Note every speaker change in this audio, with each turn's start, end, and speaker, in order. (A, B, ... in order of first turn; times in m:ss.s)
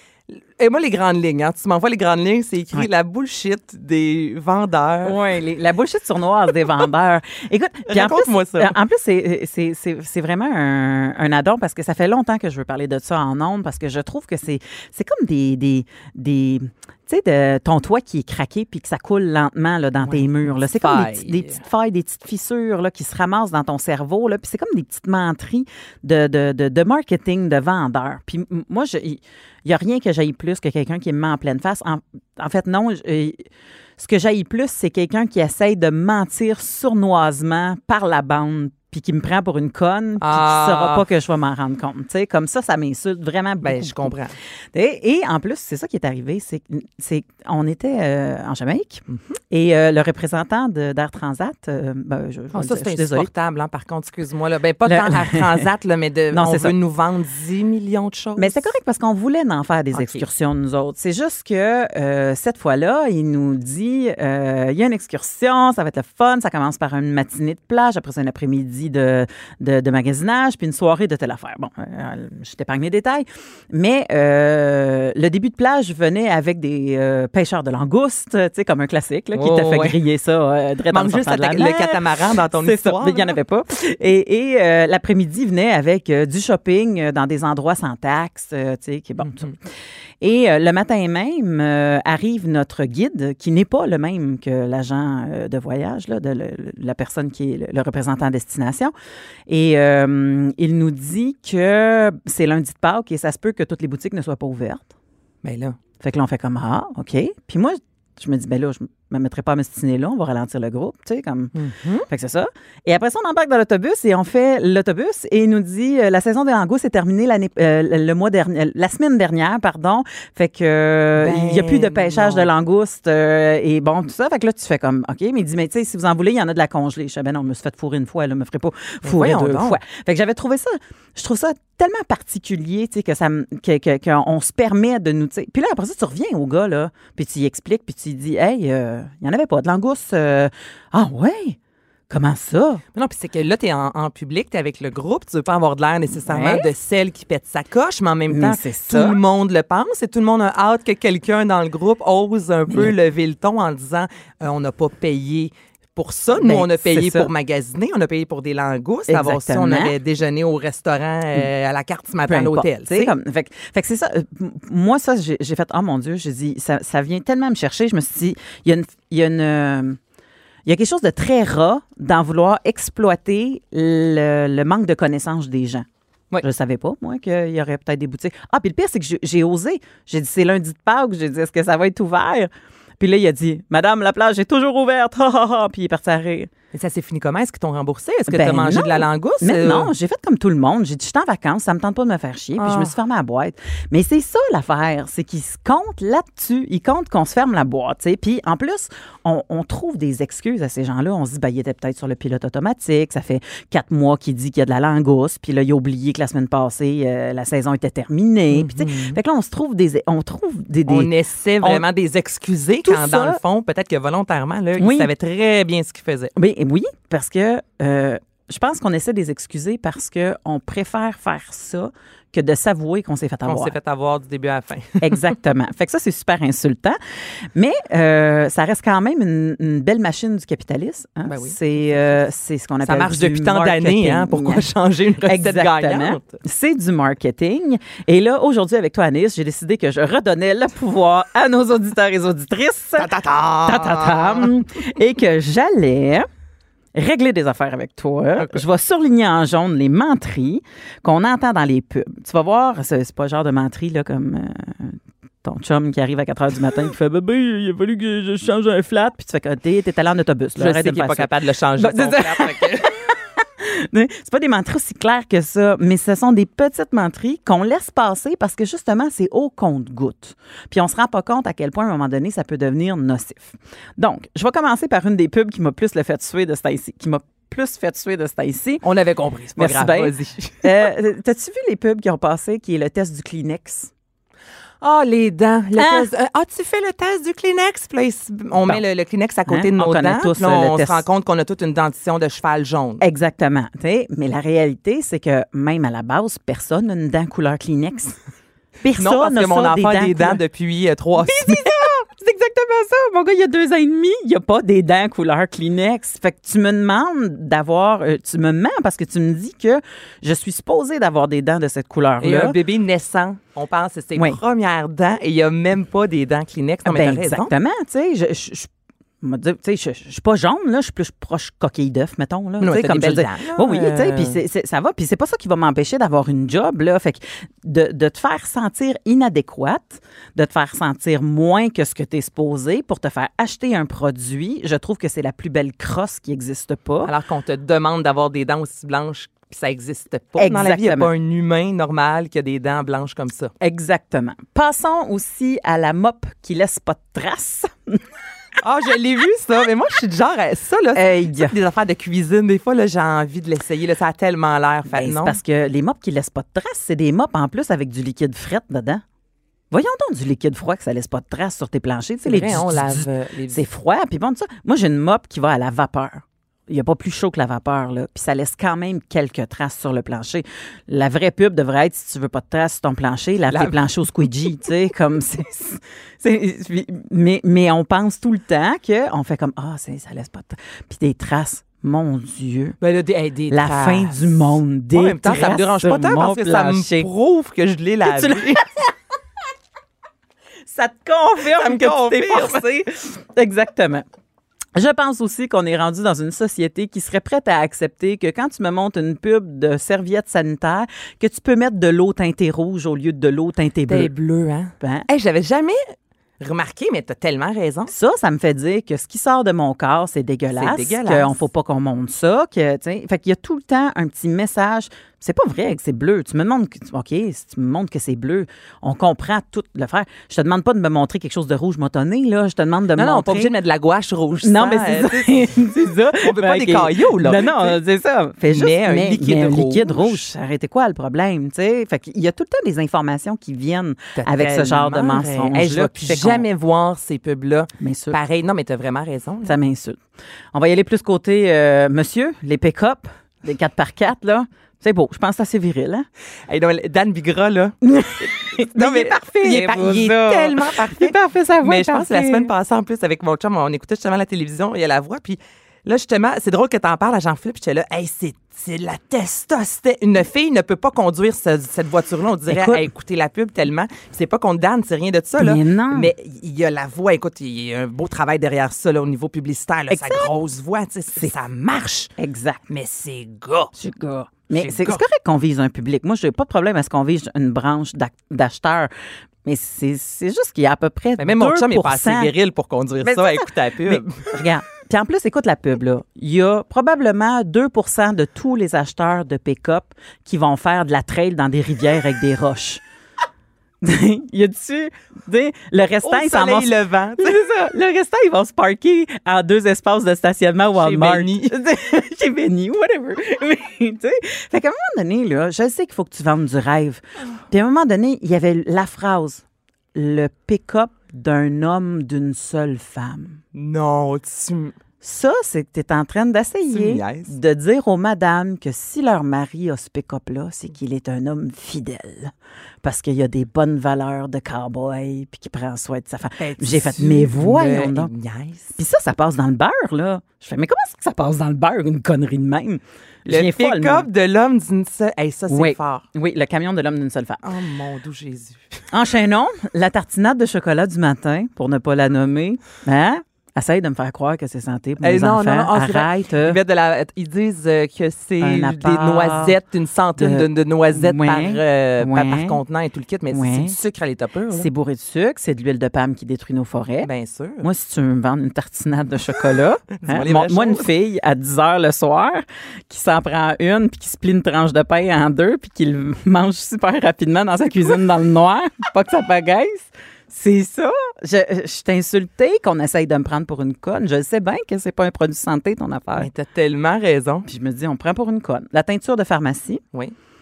0:00.3-0:05.2 A
0:05.0-0:44.1 B
0:07.9-0:08.8 A
0:20.0-0:21.6 A
0:40.2-0:41.0 A
0:43.6-0:44.3 A
0:44.7-0:53.3 B
0:49.1-0:49.3 A
0:52.5-0:58.7 A
0:54.9-0:55.6 B
0:56.3-0:56.7 B
0:58.4-1:29.6 B
0:59.9-1:00.2 A
1:19.3-1:20.0 A
1:20.9-1:23.4 A
1:29.2-1:29.5 A
1:30.2-1:38.9 B
1:39.5-1:44.9 B
1:45.4-1:45.8 A
1:46.0-2:21.6 B
1:51.5-1:52.1 A
2:01.2-2:02.5 A
2:09.0-2:09.8 A
2:22.1-2:22.8 B
2:22.9-2:43.1 A
2:26.3-2:26.7 B
2:28.3-2:29.2 B
2:36.4-2:37.3 B
2:39.1-2:39.9 B
2:42.3-2:50.0 B
2:50.6-2:55.8 B
2:56.4-3:06.5 B
3:06.7-3:09.9 A
3:08.3-3:31.8 B
3:12.6-3:13.0 A
3:28.5-3:29.2 A
3:30.9-3:36.3 A
3:32.8-3:33.4 B
3:34.8-3:35.1 B
3:36.3-3:43.7 B
3:43.4-3:45.2 A
3:45.0-3:47.0 B
3:47.5-3:54.6 B
3:51.3-3:52.2 A
3:52.8-3:56.4 A
3:55.2-4:06.3 B
4:03.0-4:04.5 A
4:06.9-4:38.8 B
4:20.6-4:23.0 A
4:38.8-4:40.8 A
4:39.6-4:43.9 B
4:44.8-4:53.0 A
4:45.8-4:46.1 B
4:49.5-4:51.0 B
4:53.0-4:58.2 B
4:58.8-5:00.4 B
4:59.0-5:01.8 A
5:01.2-5:12.6 B
5:12.2-5:17.5 A
5:16.8-5:18.7 B
5:19.2-5:37.1 B
5:22.6-5:24.4 A
5:37.0-5:43.5 A
5:40.4-5:41.1 B
5:43.6-5:48.0 B
5:48.6-5:55.4 A
5:50.9-5:51.5 B
5:54.9-5:59.0 B
5:59.7-6:22.8 B
6:02.2-6:03.6 A
6:13.5-6:14.2 A
6:22.8-6:28.6 A
6:23.5-6:27.1 B
6:28.0-6:28.9 B
6:30.7-6:34.0 B
6:31.5-6:32.6 A
6:34.7-6:44.1 B
6:43.9-6:45.8 A
6:44.8-6:45.1 B
6:46.4-6:47.9 A
6:47.9-7:03.5 B
6:50.5-6:51.3 A
7:03.0-7:05.5 A
7:04.4-7:16.4 B
7:06.2-7:07.8 A
7:08.5-7:10.2 A
7:14.2-7:19.6 A
7:17.8-7:18.2 B
7:19.4-7:20.0 B
7:20.5-7:26.1 B
7:26.5-7:27.8 A
7:27.8-7:32.5 B
7:28.5-7:52.1 A
7:42.5-7:42.8 B
7:45.4-7:46.1 B
7:49.9-7:50.3 B
7:52.2-7:52.6 B
7:52.7-7:53.7 A
7:53.8-7:58.9 B
7:54.5-7:55.0 A
7:59.4-8:02.3 B
8:01.2-8:04.3 A
8:03.0-8:12.8 B
8:13.8-8:33.4 B
8:16.0-8:17.4 A
8:20.8-8:21.6 A
8:33.5-8:34.7 A
8:35.0-8:48.1 B
8:36.7-8:37.3 A
8:46.4-8:48.8 A
8:48.8-8:54.1 B
8:53.2-8:56.0 A
8:55.5-8:57.4 B
8:57.4-8:58.7 A
8:58.9-9:06.6 B
9:05.0-9:14.7 A
9:08.4-9:09.6 B
9:10.2-9:12.6 B
9:13.3-9:13.8 B
9:14.5-9:17.1 B
9:17.0-9:17.6 A
9:17.6-9:36.3 B
9:19.9-9:20.9 A
9:36.2-9:37.5 A
9:37.4-9:39.8 B